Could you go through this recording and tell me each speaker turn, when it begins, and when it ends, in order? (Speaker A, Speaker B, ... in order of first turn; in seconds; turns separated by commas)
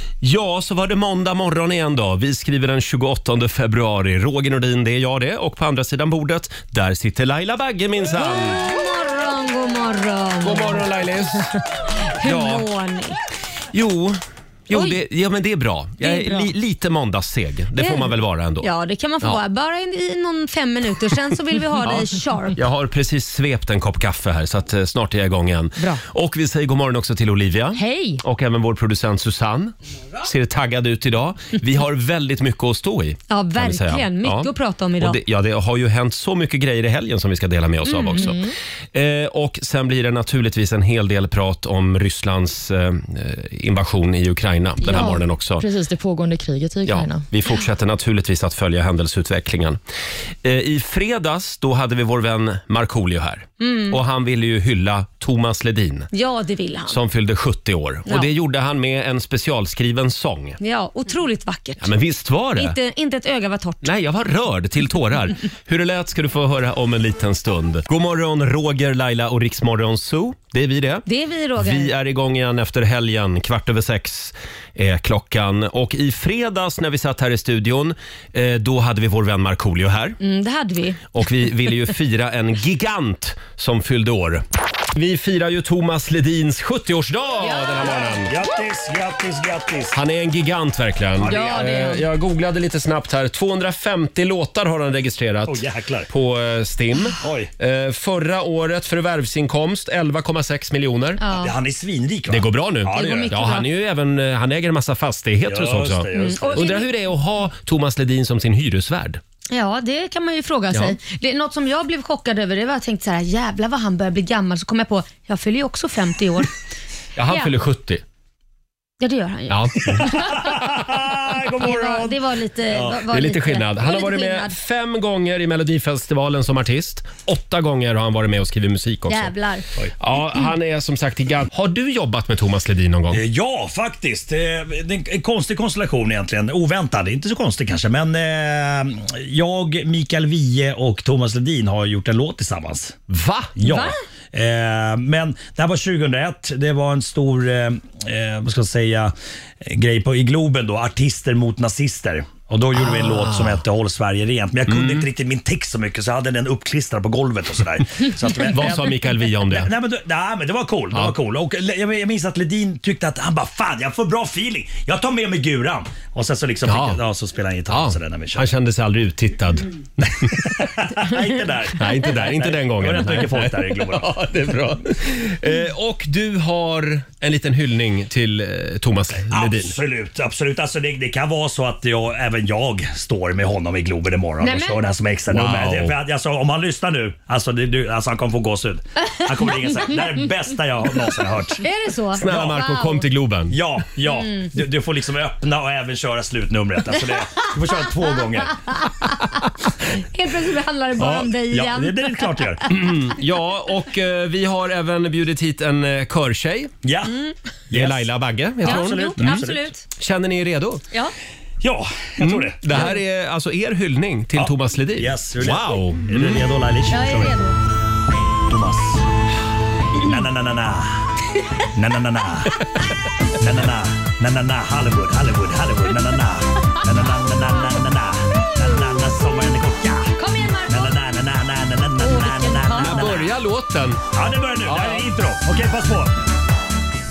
Speaker A: 0.2-8.6, Speaker B: 8.2-10.9, Speaker A: 10.4-11.6, Speaker B: 12.2-13.2, Speaker A: 12.2-12.7, Speaker A: 13.7-18.7, Speaker B: 14.7-15.0, Speaker B: 16.0-16.5, Speaker B: 17.8-22.6, Speaker A: 21.9-38.4, Speaker C: 27.8-28.2, Speaker B: 33.3-35.2, Speaker B: 37.9-38.4, Speaker C: 38.1-38.5, Speaker A: 38.9-45.6, Speaker C: 44.8-47.2, Speaker B: 44.8-45.1, Speaker A: 46.9-49.8, Speaker A: 50.4-56.1, Speaker B: 53.6-54.0, Speaker B: 56.1-57.0, Speaker A: 56.9-60.6, Speaker B: 60.6-61.9, Speaker A: 61.8-62.8, Speaker B: 62.6-63.9, Speaker A: 63.8-71.1, Speaker B: 71.1-71.9, Speaker A: 71.6-80.2, Speaker B: 80.2-81.1, Speaker A: 81.1-88.3, Speaker D: 87.8-90.0, Speaker A: 89.9-101.2, Speaker D: 91.2-92.0, Speaker B: 91.3-92.0, Speaker D: 95.5-96.1, Speaker D: 97.2-97.5, Speaker B: 101.2-101.5, Speaker D: 101.4-103.5, Speaker A: 102.3-109.2, Speaker B: 103.0-103.6, Speaker D: 105.5-106.7, Speaker B: 106.1-106.9, Speaker B: 109.5-116.5, Speaker A: 117.2-118.0, Speaker B: 119.0-120.4, Speaker A: 119.5-120.7, Speaker D: 119.9-123.0, Speaker B: 121.6-124.5, Speaker A: 123.1-129.3, Speaker B: 129.1-129.7, Speaker A: 130.0-133.2, Speaker D: 133.1-143.0, Speaker A: 143.1-143.5, Speaker D: 143.6-168.5, Speaker B: 143.7-143.9, Speaker A: 153.2-153.5, Speaker A: 154.7-155.1, Speaker A: 158.5-159.7, Speaker A: 166.7-167.0, Speaker A: 167.7-169.7, Speaker D: 170.0-174.2, Speaker A: 171.7-179.8, Speaker D: 179.3-191.6, Speaker B: 184.4-184.8, Speaker A: 185.3-186.0, Speaker B: 191.6-193.1, Speaker A: 192.1-193.6, Speaker D: 192.3-192.6, Speaker D: 193.5-198.7, Speaker B: 194.1-194.5, Speaker B: 200.0-202.5, Speaker A: 201.0-201.3, Speaker D: 201.5-202.6, Speaker A: 202.7-206.7, Speaker D: 206.8-207.2, Speaker B: 207.1-207.3, Speaker D: 207.7-209.7, Speaker A: 207.7-210.8, Speaker B: 208.7-209.8, Speaker D: 211.6-213.0, Speaker A: 212.2-216.5, Speaker D: 214.4-217.4, Speaker B: 216.9-217.6, Speaker D: 218.5-219.1, Speaker D: 219.9-221.1, Speaker D: 221.7-222.6, Speaker D: 223.4-230.1, Speaker B: 230.2-231.0, Speaker D: 230.7-233.3, Speaker B: 232.0-233.3, Speaker A: 232.8-234.0, Speaker D: 234.1-236.2, Speaker A: 234.7-235.1